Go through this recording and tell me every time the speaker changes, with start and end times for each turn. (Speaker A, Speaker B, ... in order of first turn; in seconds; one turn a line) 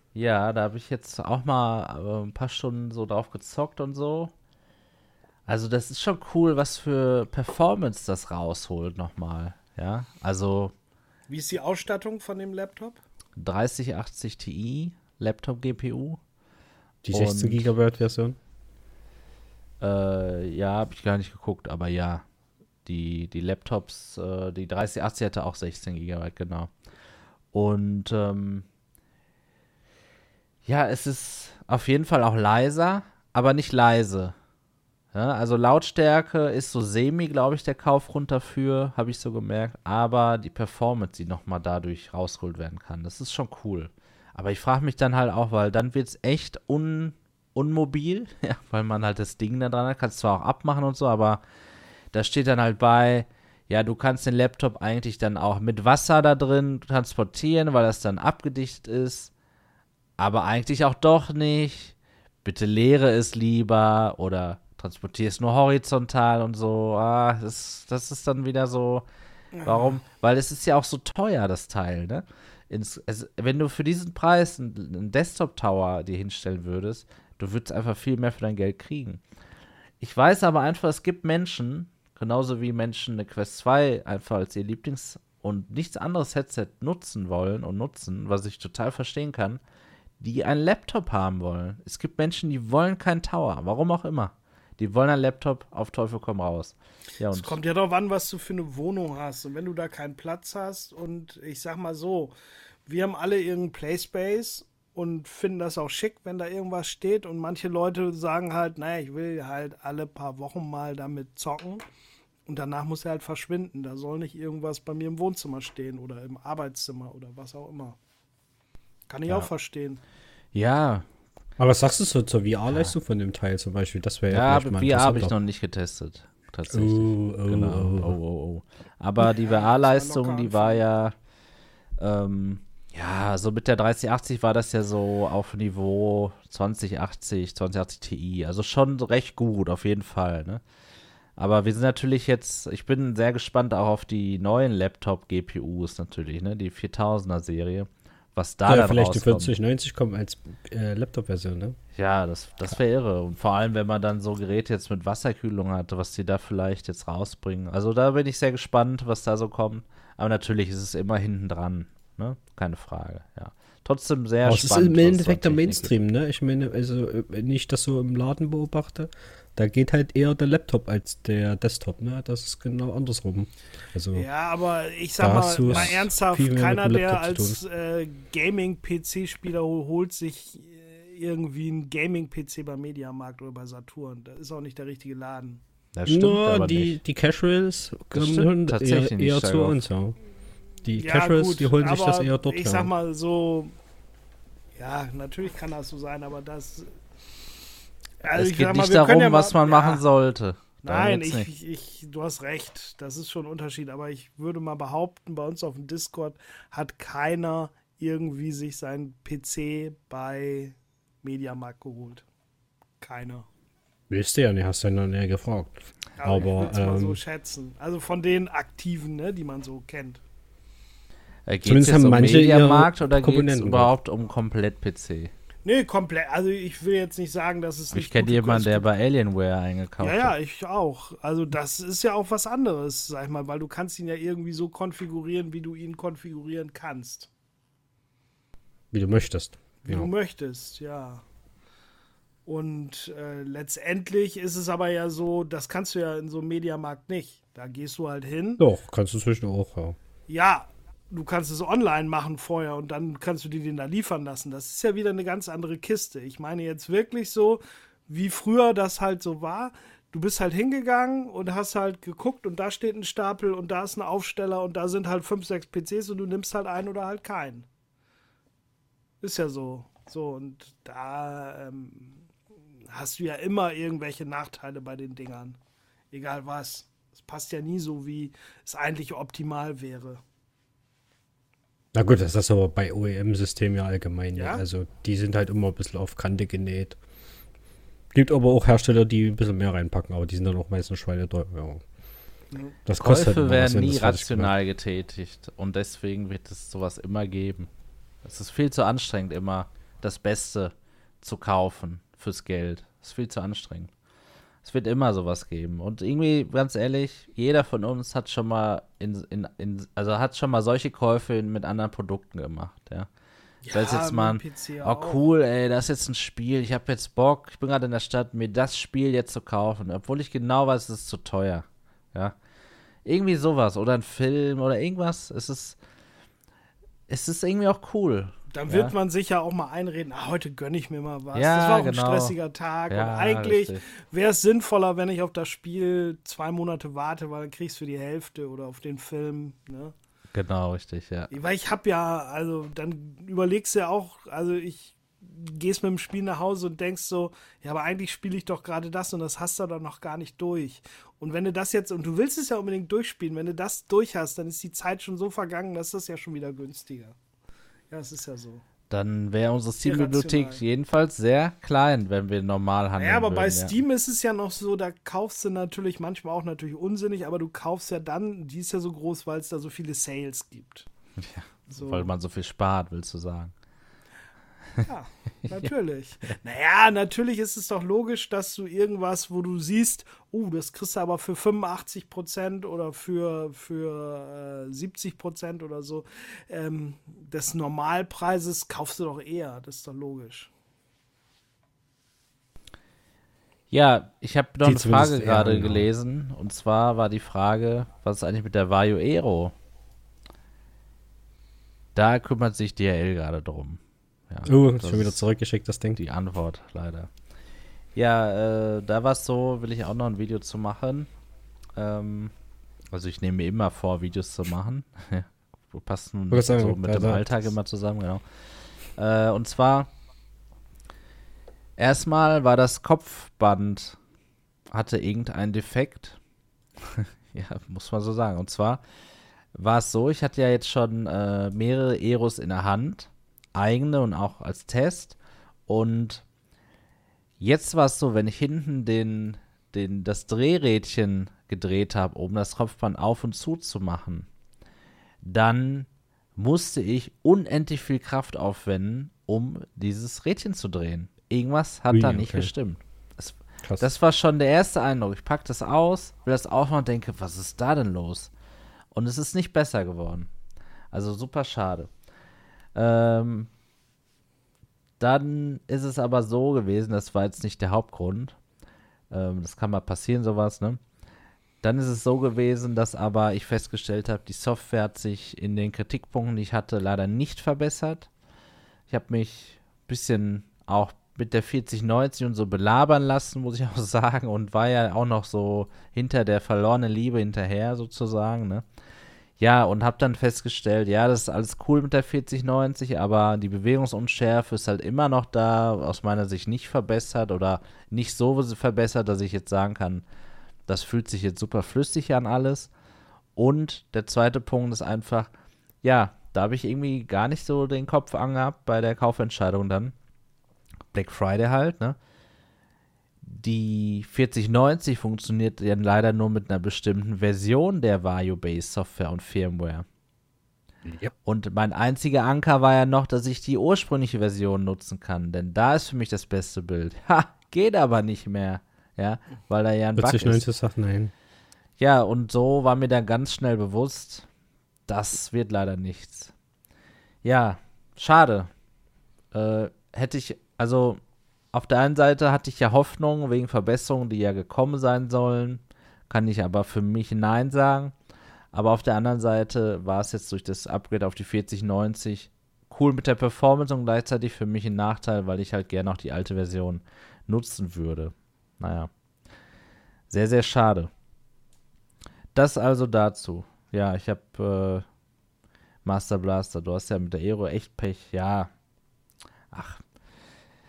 Speaker A: 0.1-4.3
Speaker A: 5.5-10.7
Speaker B: 11.3-13.0
Speaker A: 13.4-16.2
Speaker C: 17.0-18.4
Speaker A: 17.1-17.7
Speaker A: 19.8-22.2
Speaker A: 22.9-26.7
Speaker A: 27.5-28.7
Speaker A: 30.7-34.4
Speaker A: 35.1-51.4
Speaker A: 52.1-59.3
Speaker A: 60.2-69.1
Speaker B: 69.5-70.0
Speaker A: 69.6-79.2
Speaker A: 80.0-89.6
Speaker A: 90.2-97.6
Speaker B: 97.3-102.3
Speaker B: 102.9-111.8
Speaker B: 112.5-118.0
Speaker B: 119.1-120.0
Speaker A: 120.5-121.1
Speaker C: 121.6-125.3
Speaker A: 122.7-123.0
Speaker A: 124.3-131.2
Speaker C: 126.7-128.2
Speaker B: 129.2-130.8
Speaker A: 132.0-140.6
Speaker A: 141.4-149.5
Speaker C: 148.7-151.8
Speaker A: 152.0-165.9
Speaker C: 164.4-174.3
Speaker B: 174.1-185.6
Speaker C: 175.2-177.6
Speaker A: 175.7-176.0
Speaker A: 185.9-187.0
Speaker C: 186.1-190.2
Speaker A: 188.1-189.8
Speaker C: 190.8-192.9
Speaker B: 191.0-193.8
Speaker B: 194.8-196.9
Speaker B: 198.2-200.0
Speaker A: 198.3-201.5
Speaker B: 200.8-212.2
Speaker B: 213.0-213.5
Speaker C: 214.1-217.2
Speaker B: 216.2-220.2
Speaker A: 221.5-225.3
Speaker C: 221.7-223.9
Speaker B: 225.7-228.8
Speaker A: 227.9-230.3
Speaker B: 230.0-237.3
Speaker C: 238.9-240.1
Speaker B: 239.8-241.2
Speaker B: 242.5-248.6
Speaker C: 248.6-250.0
Speaker B: 250.3-267.7
Speaker B: 269.2-272.2
Speaker B: 272.9-275.6
Speaker B: 276.1-280.2
Speaker C: 281.9-287.0
Speaker B: 284.4-284.6
Speaker C: 288.1-291.8
Speaker C: 292.9-294.5
Speaker A: 293.0-297.7
Speaker A: 298.2-303.9
Speaker A: 304.6-313.1
Speaker B: 313.6-315.2
Speaker A: 313.7-322.4
Speaker A: 323.1-325.8
Speaker A: 327.1-328.9
Speaker B: 328.5-339.9
Speaker A: 331.3-332.4
Speaker A: 332.9-333.8
Speaker A: 340.3-341.3
Speaker B: 341.3-357.1
Speaker B: 357.9-358.6
Speaker A: 358.9-363.8
Speaker B: 359.8-360.6
Speaker B: 363.0-370.9
Speaker A: 371.2-373.5
Speaker B: 371.7-372.1
Speaker B: 374.8-390.5
Speaker A: 393.7-399.5
Speaker C: 394.6-395.9
Speaker A: 401.9-405.2
Speaker C: 404.5-406.0
Speaker A: 406.0-407.1
Speaker A: 407.9-411.1
Speaker A: 411.8-412.3
Speaker A: 412.9-418.2
Speaker C: 416.3-417.5
Speaker A: 419.0-419.9
Speaker A: 421.8-424.0
Speaker A: 424.7-426.2
Speaker A: 426.8-428.8
Speaker A: 429.6-435.2
Speaker A: 435.7-436.2
Speaker A: 437.4-444.3
Speaker A: 445.2-458.3
Speaker C: 451.9-452.5
Speaker A: 458.9-460.3
Speaker A: 460.9-461.9
Speaker A: 462.8-463.5
Speaker A: 465.0-468.4
Speaker A: 469.1-470.8
Speaker A: 471.6-478.1
Speaker A: 478.9-488.6
Speaker A: 489.4-500.0
Speaker A: 500.7-502.7
Speaker A: 503.4-505.3
Speaker A: 505.8-509.9
Speaker A: 510.9-512.0
Speaker A: 513.2-519.9
Speaker C: 520.9-521.1
Speaker A: 521.2-530.5
Speaker C: 530.0-531.1
Speaker A: 531.8-534.3
Speaker A: 534.9-536.3
Speaker A: 537.2-538.5
Speaker A: 539.3-541.0
Speaker A: 541.5-547.9
Speaker A: 548.5-558.9
Speaker A: 560.1-560.9
Speaker A: 562.4-564.9
Speaker A: 565.9-568.5
Speaker A: 569.5-569.8